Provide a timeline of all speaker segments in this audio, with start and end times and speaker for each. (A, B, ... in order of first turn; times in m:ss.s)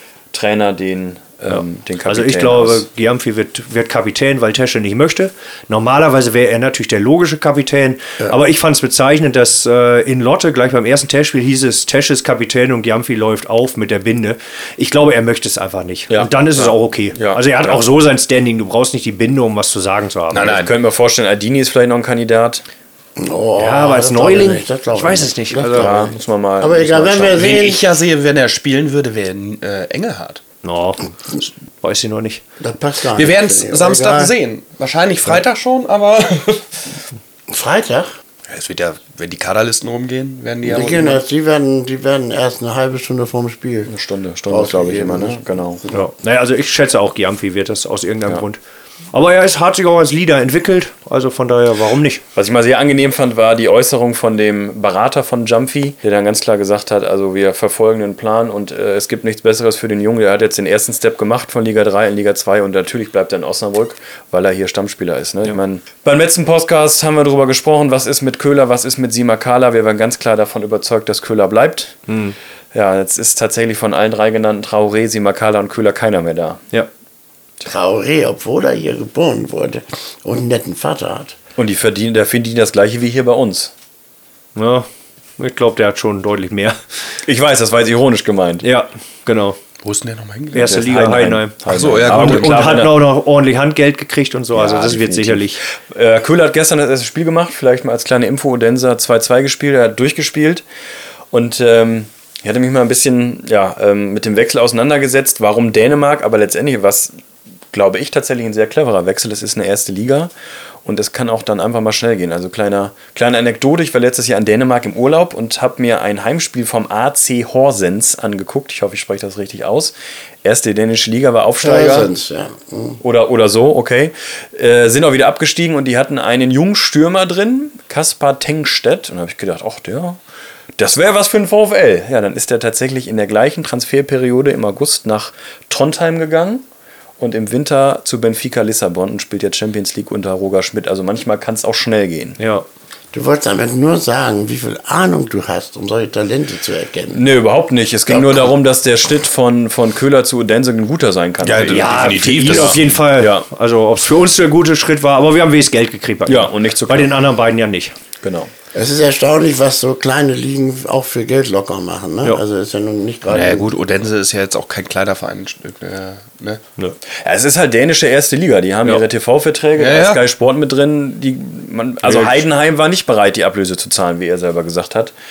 0:00.3-0:02.8 A
0:01.5-0:20.6 B
0:16.1-0:17.8 A
0:20.3-0:20.7 C
0:20.4-0:22.6 A
0:23.2-0:27.8 D
0:23.6-0:26.0 B
0:25.7-0:27.4 A
0:27.3-0:30.4 C
0:30.6-0:31.1 B
0:31.8-0:32.4 B
0:32.6-0:34.3 D
0:33.1-0:36.8 C
0:37.5-0:38.1 D
0:38.5-0:41.2 C
0:40.6-0:43.9 D
0:43.9-0:45.8 A
0:44.5-0:46.0 D
0:45.9-0:48.6 B
0:49.1-0:52.2 B
0:52.3-1:12.0 A
1:12.1-1:12.4 B
1:12.7-1:16.6 A
1:17.6-1:21.4 D
1:21.6-1:23.7 A
1:24.5-1:26.8 B
1:27.2-1:28.6 A
1:28.6-1:29.6 B
1:29.8-1:30.7 C
1:30.5-1:35.6 B
1:30.6-1:33.0 A
1:31.7-1:32.8 C
1:34.5-1:40.6 A
1:41.3-1:47.1 A
1:47.7-1:50.3 A
1:50.8-1:59.9 A
2:00.4-2:02.1 A
2:01.6-2:03.0 D
2:03.0-2:10.2 A
2:10.8-2:16.6 A
2:17.2-2:22.4 A
2:22.4-2:22.6 B
2:23.1-2:27.2 D
2:27.1-2:33.4 A
2:28.1-2:28.5 D
2:31.4-2:32.8 C
2:31.7-2:37.9 B
2:36.2-2:37.1 A
2:38.2-2:38.5 A
2:38.7-2:43.7 D
2:43.3-2:46.6 C
2:47.2-2:55.1 A
2:49.8-2:50.2 C
2:52.0-2:52.4 B